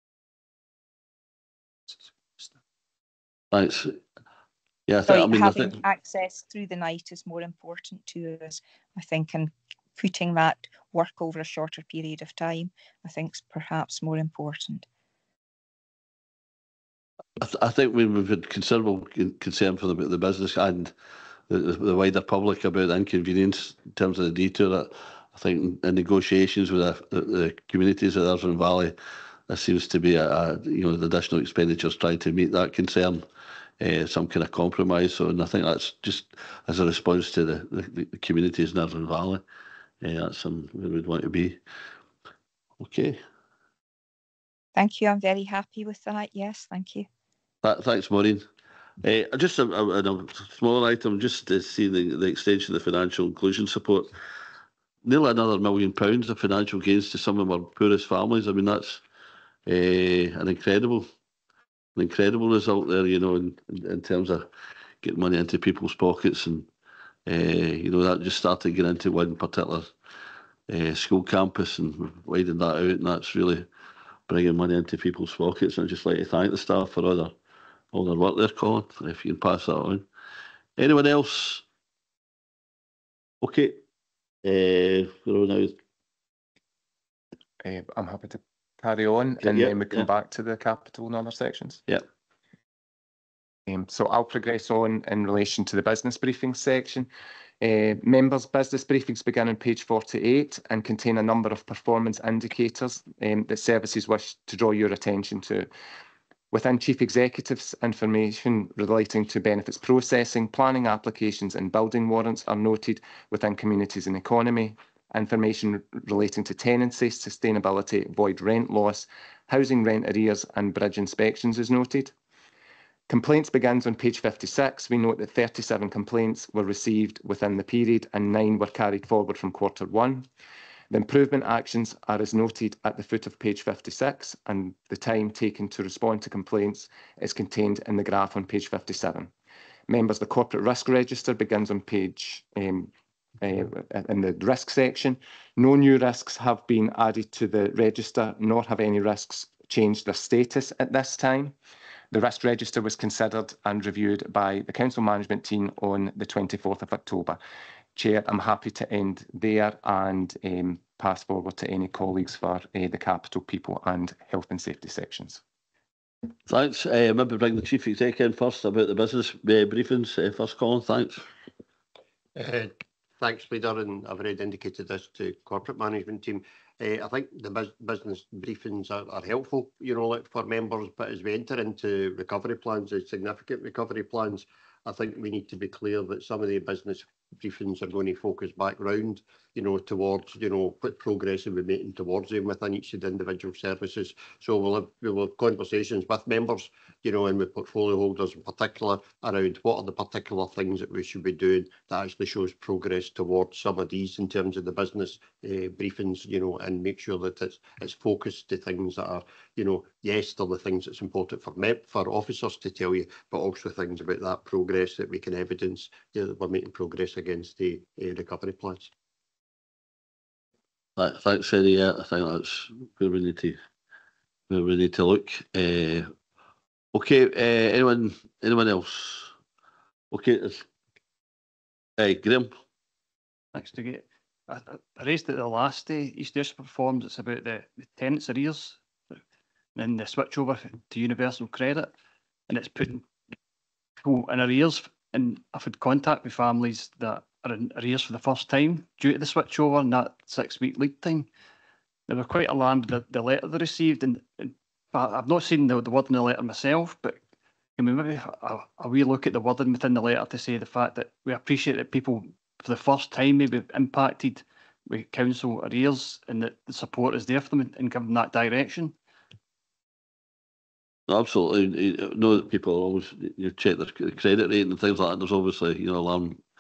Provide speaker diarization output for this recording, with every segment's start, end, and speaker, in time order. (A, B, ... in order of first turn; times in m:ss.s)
0:03.5-0:04.0 A
0:04.9-0:05.8 A
0:05.0-0:14.8 B
0:17.4-0:20.9 A
0:21.5-0:28.9 A
0:29.5-0:33.2 A
0:33.8-0:39.4 A
0:40.0-0:41.6 A
0:42.8-0:43.2 A
0:44.7-0:47.1 B
0:47.6-0:48.4 A
0:49.0-0:54.1 A
0:55.0-0:59.0 A
0:59.6-1:01.1 A
1:02.0-1:04.4 A
1:05.0-1:06.7 A
1:07.2-1:09.9 A
1:10.7-1:13.7 A
1:14.3-1:17.3 A
1:17.9-1:20.0 A
1:20.8-1:21.6 A
1:23.4-1:23.8 A
1:24.4-1:25.8 A
1:27.6-1:31.8 C
1:29.4-1:30.0 A
1:33.7-1:37.1 C
1:37.6-1:45.7 C
1:46.5-2:02.1 C
2:03.1-2:10.3 C
2:10.9-2:19.3 C
2:19.9-2:31.5 C
2:32.1-2:37.4 C
2:37.9-2:45.4 C
2:46.5-2:51.2 A
2:52.4-3:38.9 D
3:41.0-3:43.6 A
3:44.5-3:46.1 A
3:46.9-3:49.3 A
3:50.1-3:50.6 A
3:52.0-3:52.5 A
3:53.5-3:59.2 E
3:59.8-4:01.9 E
4:02.5-4:03.1 E
4:04.0-4:11.3 E
4:12.1-4:17.2 E
4:17.8-4:28.9 E
4:31.1-4:36.4 A